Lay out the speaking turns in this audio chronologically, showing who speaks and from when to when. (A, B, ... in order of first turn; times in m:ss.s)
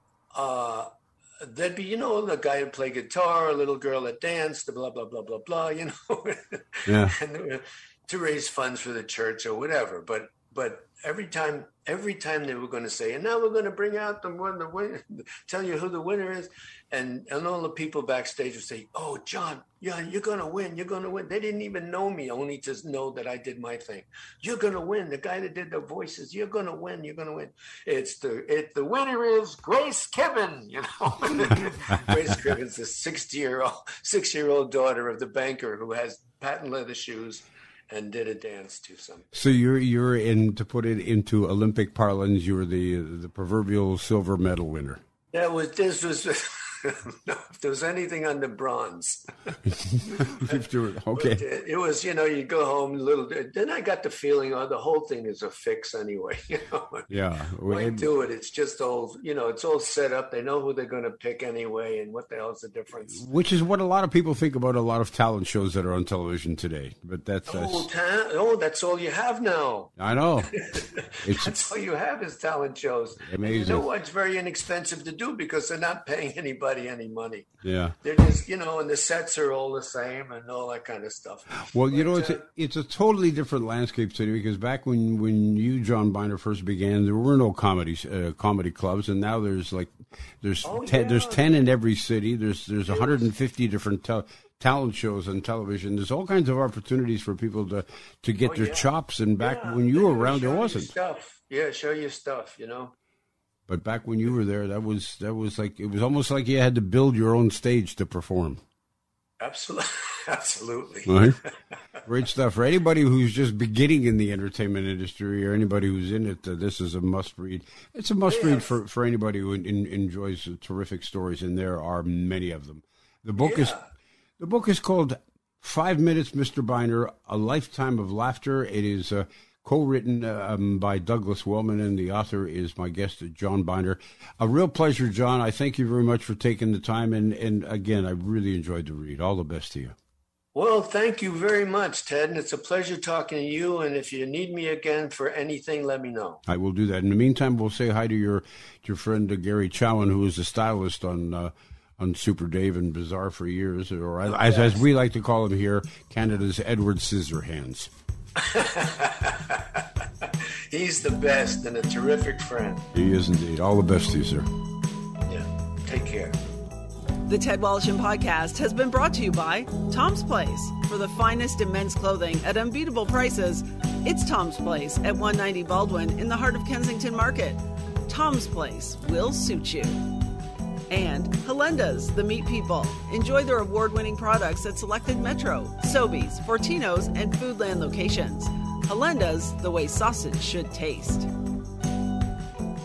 0:00.3-0:39.3 A
0:06.9-0:07.2 B
0:39.3-0:45.0 B
0:45.3-0:49.3 A
0:49.7-0:51.4 B
0:50.1-0:57.1 A
0:57.1-0:58.1 B
0:57.7-1:03.2 A
1:03.1-1:07.9 B
1:07.5-1:17.5 A
1:10.0-1:10.5 B
1:11.2-1:11.6 B
1:13.2-1:13.8 B
1:17.6-1:18.0 B
1:18.0-1:22.4 A
1:21.7-1:40.9 B
1:30.6-1:31.6 A
1:32.9-1:33.2 A
1:38.4-1:42.9 A
1:43.7-1:48.6 B
1:49.4-1:51.5 A
1:51.0-1:51.4 B
1:52.0-2:03.8 B
1:58.3-1:58.7 A
2:03.4-2:03.9 A
2:04.4-2:20.0 B
2:20.6-2:26.4 A
2:26.5-2:37.9 B
2:34.4-2:34.8 A
2:38.4-2:42.9 A
2:42.9-2:44.5 B
2:45.3-2:46.4 A
2:47.3-3:00.0 C
3:00.9-3:11.3 C